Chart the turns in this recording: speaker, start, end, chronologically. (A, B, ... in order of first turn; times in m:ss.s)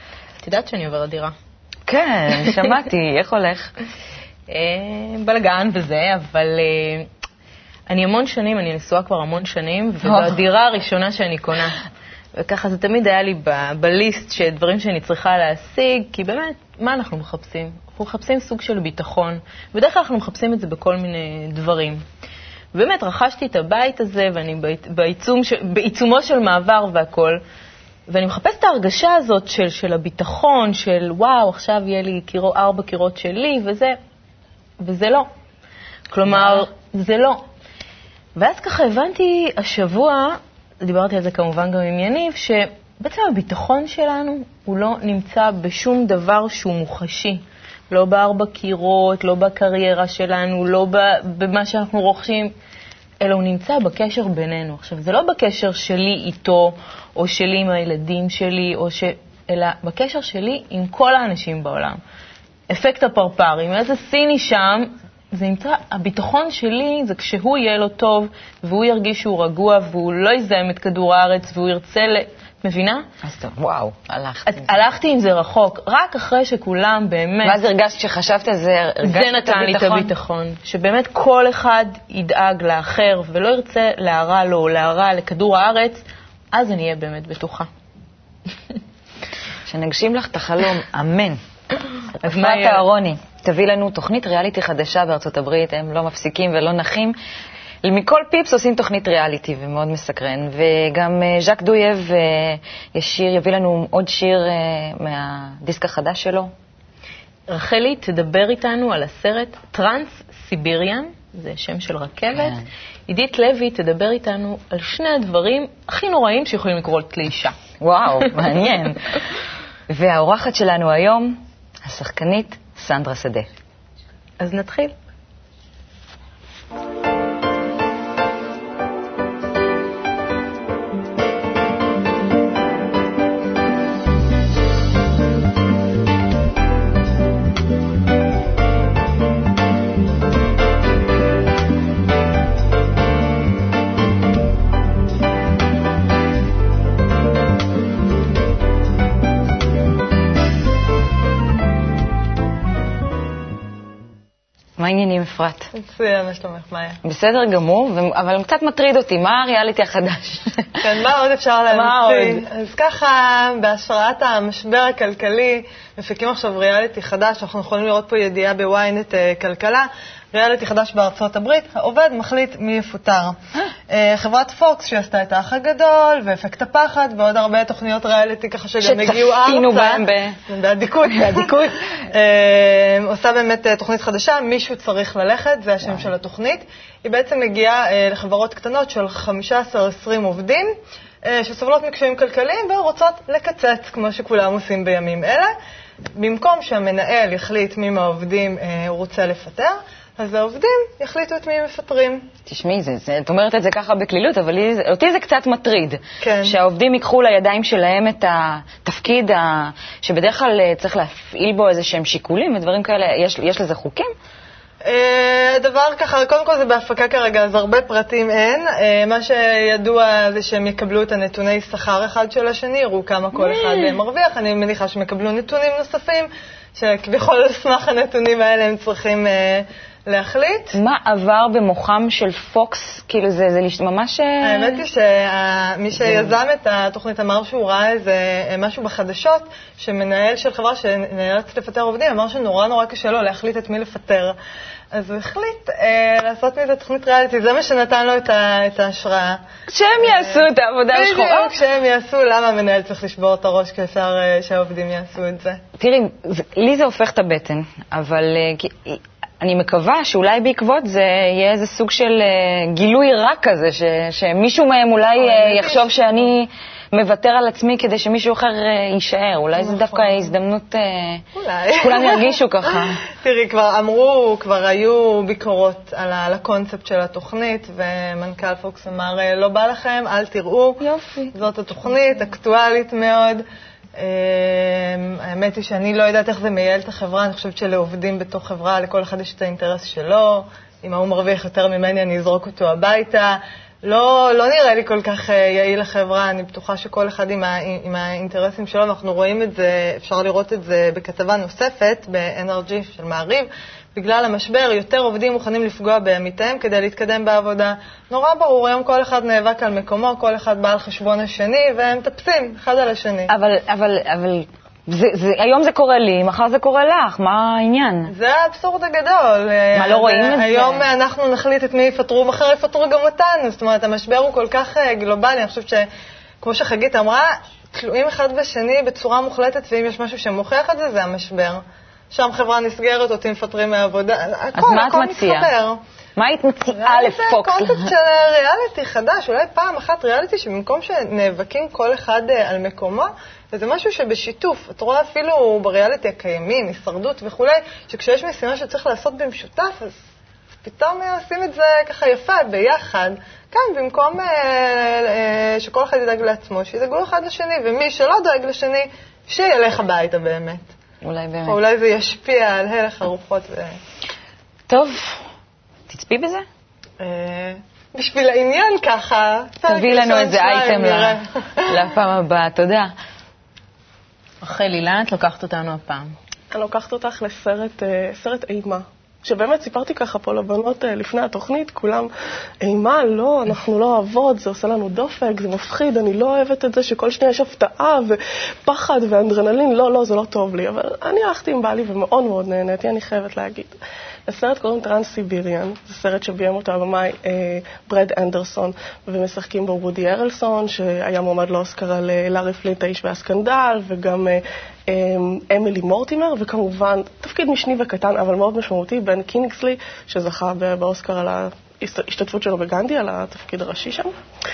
0:00.4-0:01.4 A
0:01.9-0:03.7 B
0:04.5-0:07.1 A
0:07.9-0:11.8 A
0:12.4-0:22.0 A
0:22.7-0:27.4 A
0:28.1-0:34.0 A
0:34.8-0:35.3 A
0:36.1-0:37.4 A
0:38.4-0:52.5 A
0:53.2-1:02.0 A
1:02.7-1:13.1 A
1:13.2-1:14.8 B
1:14.5-1:17.6 A
1:17.4-1:20.1 B
1:19.0-1:27.7 A
1:29.7-1:31.4 B
1:32.2-1:32.8 A
1:32.2-1:37.2 B
1:37.8-1:46.5 B
1:47.5-1:57.6 A
1:52.3-1:52.6 B
1:57.8-1:59.2 B
1:59.9-2:03.5 B
2:04.4-2:04.9 A
2:34.8-2:35.7 B
2:35.8-2:37.0 C
2:37.0-2:40.9 B
2:40.8-2:53.4 C
2:41.7-2:42.4 B
2:53.9-3:10.7 C
2:58.8-3:00.4 B
3:01.1-3:01.6 B
3:11.2-3:15.5 C
3:16.2-3:22.3 C
3:22.5-3:34.1 B
3:26.2-3:26.6 C
3:34.8-3:50.8 C
3:43.4-3:44.0 B
3:50.7-3:54.8 B
3:54.4-4:04.4 C
3:55.9-3:56.4 B
4:04.9-4:09.4 C
4:09.7-4:11.6 B
4:10.0-4:15.6 C
4:15.8-4:33.0 B
4:25.2-4:26.0 C
4:29.6-4:30.2 C
4:31.4-4:43.4 C
4:40.8-4:41.3 B
4:44.0-5:13.3 C
5:13.3-5:18.1 B
5:18.1-5:25.9 C
5:19.8-5:20.9 B
5:26.4-5:35.8 C
5:34.6-5:35.5 B
5:36.2-5:37.9 B
5:36.7-5:50.0 C
5:50.6-6:00.6 C
6:01.0-6:01.6 B
6:01.4-6:03.8 C
6:04.7-6:05.2 B
6:05.9-6:06.5 B
6:07.0-6:11.8 C
6:09.7-6:12.9 B
6:14.4-6:16.1 A
6:16.5-6:22.1 D
6:22.6-6:54.1 D